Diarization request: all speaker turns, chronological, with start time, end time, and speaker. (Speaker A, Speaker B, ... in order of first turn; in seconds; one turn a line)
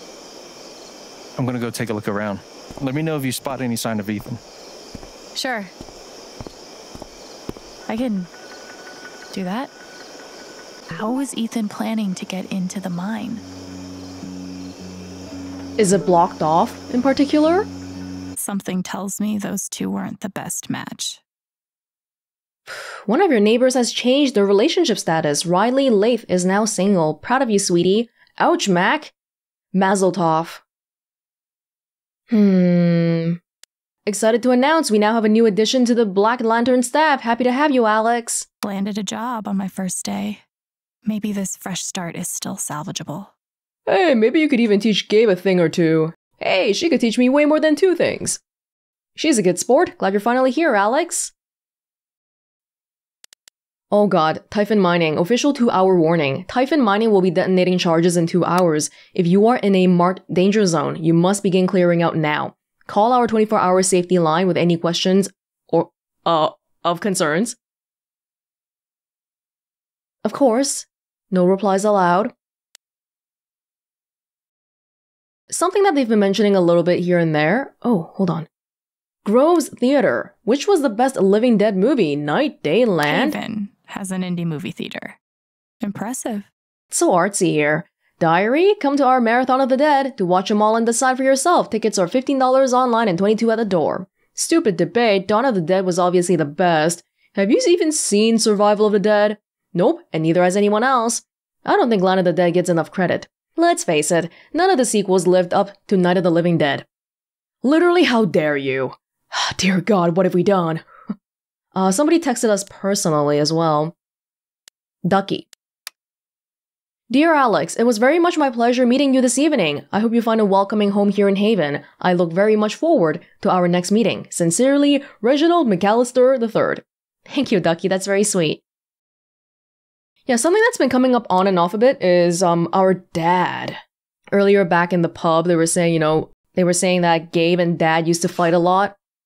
Speaker A: 1.4-4.4
Speaker B: 5.3-5.7
Speaker B: 7.9-8.3
Speaker B: 9.3-9.7
Speaker B: 10.9-13.4
Speaker C: 15.8-17.7
Speaker B: 18.4-21.2
Speaker C: 22.7-29.1
Speaker C: 29.7-30.6
Speaker C: 32.3-33.4
Speaker C: 34.0-38.5
Speaker B: 38.6-40.4
Speaker B: 41.0-43.3
Speaker C: 43.9-48.4
Speaker C: 49.1-51.3
Speaker C: 53.9-67.5
Speaker C: 70.2-72.3
Speaker C: 75.5-78.5
Speaker C: 79.2-83.4
Speaker B: 83.0-85.2
Speaker B: 85.8-86.5
Speaker C: 86.9-106.8
Speaker C: 107.6-110.8
Speaker C: 111.7-113.9
Speaker C: 115.0-115.5
Speaker C: 117.1-128.6
Speaker C: 130.3-133.8
Speaker C: 134.3-138.9